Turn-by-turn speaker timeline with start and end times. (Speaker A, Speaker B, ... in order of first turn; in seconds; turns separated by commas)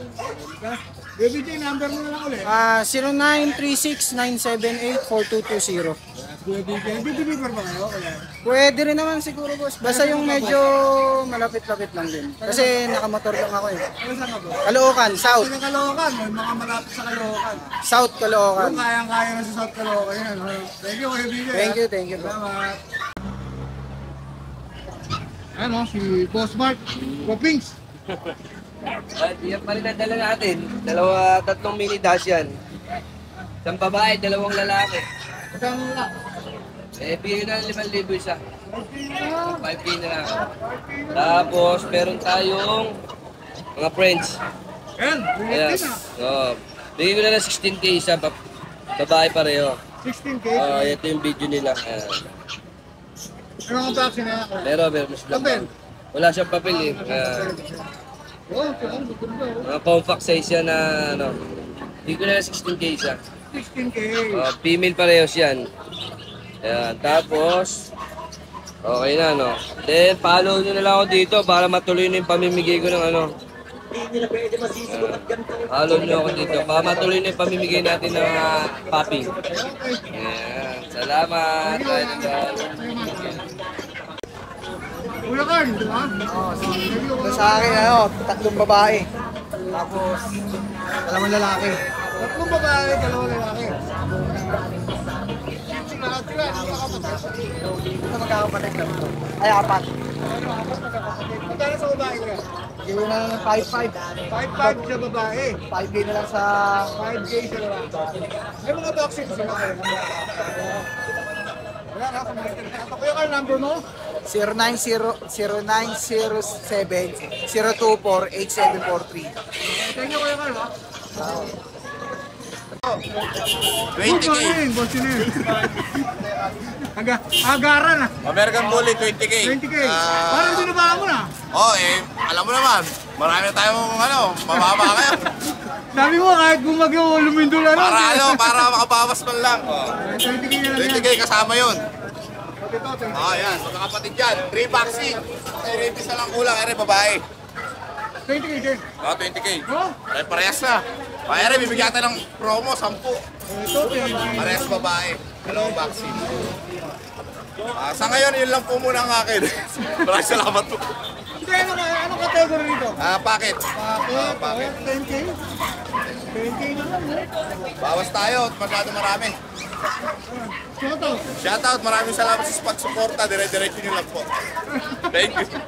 Speaker A: 0.3-2.5, Speaker B: 2.4-6.0, Speaker A: 6.3-8.3, Speaker B: 8.4-13.9, Speaker A: 9.8-10.6, Speaker A: 12.4-12.7, Speaker A: 14.0-14.6, Speaker B: 14.6-15.5, Speaker A: 15.4-17.7, Speaker B: 17.8-18.9, Speaker A: 18.6-22.8, Speaker B: 21.5-22.4, Speaker A: 25.6-27.7, Speaker C: 29.2-32.6, Speaker C: 33.6-35.0, Speaker A: 35.5-36.1, Speaker C: 37.0-38.4, Speaker A: 38.7-39.6, Speaker C: 39.5-40.4, Speaker A: 40.3-41.9, Speaker C: 41.1-43.0, Speaker C: 43.8-44.4, Speaker A: 45.0-46.0, Speaker C: 45.5-48.4, Speaker C: 49.0-49.8, Speaker A: 50.0-51.0, Speaker C: 50.5-52.2, Speaker A: 53.7-55.7, Speaker C: 54.6-57.5, Speaker A: 56.6-57.8, Speaker A: 58.5-59.7, Speaker C: 58.6-59.0, Speaker C: 59.6-61.4, Speaker C: 62.0-63.2, Speaker A: 63.5-64.5, Speaker C: 64.3-65.7, Speaker C: 66.6-67.9, Speaker C: 68.8-73.3, Speaker C: 74.4-79.3, Speaker A: 79.5-80.0, Speaker C: 80.1-83.4, Speaker A: 81.6-83.4, Speaker A: 85.2-86.1, Speaker B: 86.3-89.1, Speaker A: 86.8-88.0, Speaker B: 89.7-90.3, Speaker B: 91.0-91.8, Speaker A: 92.2-93.8, Speaker A: 95.7-97.4, Speaker B: 98.0-99.9, Speaker A: 100.3-102.4, Speaker B: 102.8-104.9, Speaker A: 104.3-105.6, Speaker B: 105.7-106.9, Speaker A: 106.9-107.9, Speaker A: 108.6-110.3, Speaker A: 111.9-113.8, Speaker B: 114.2-119.3, Speaker A: 119.6-121.5, Speaker D: 124.0-124.6, Speaker A: 124.0-126.2, Speaker A: 126.7-128.1, Speaker D: 128.2-130.9, Speaker A: 129.4-131.3, Speaker D: 131.5-135.2, Speaker A: 134.5-135.1, Speaker A: 135.9-138.7, Speaker D: 137.7-140.0, Speaker A: 140.0-141.1, Speaker D: 140.5-141.8, Speaker A: 142.6-143.5, Speaker D: 143.1-147.2, Speaker A: 148.2-148.8, Speaker D: 149.0-153.2, Speaker A: 149.7-149.9, Speaker A: 151.4-151.9, Speaker A: 153.5-154.9, Speaker D: 153.9-156.4, Speaker A: 155.5-156.0, Speaker D: 157.7-160.8, Speaker A: 161.4-162.9, Speaker D: 163.0-164.8, Speaker A: 163.8-165.4, Speaker A: 166.3-167.3, Speaker D: 167.8-169.3, Speaker A: 170.3-171.2, Speaker D: 171.4-174.3, Speaker D: 175.1-175.6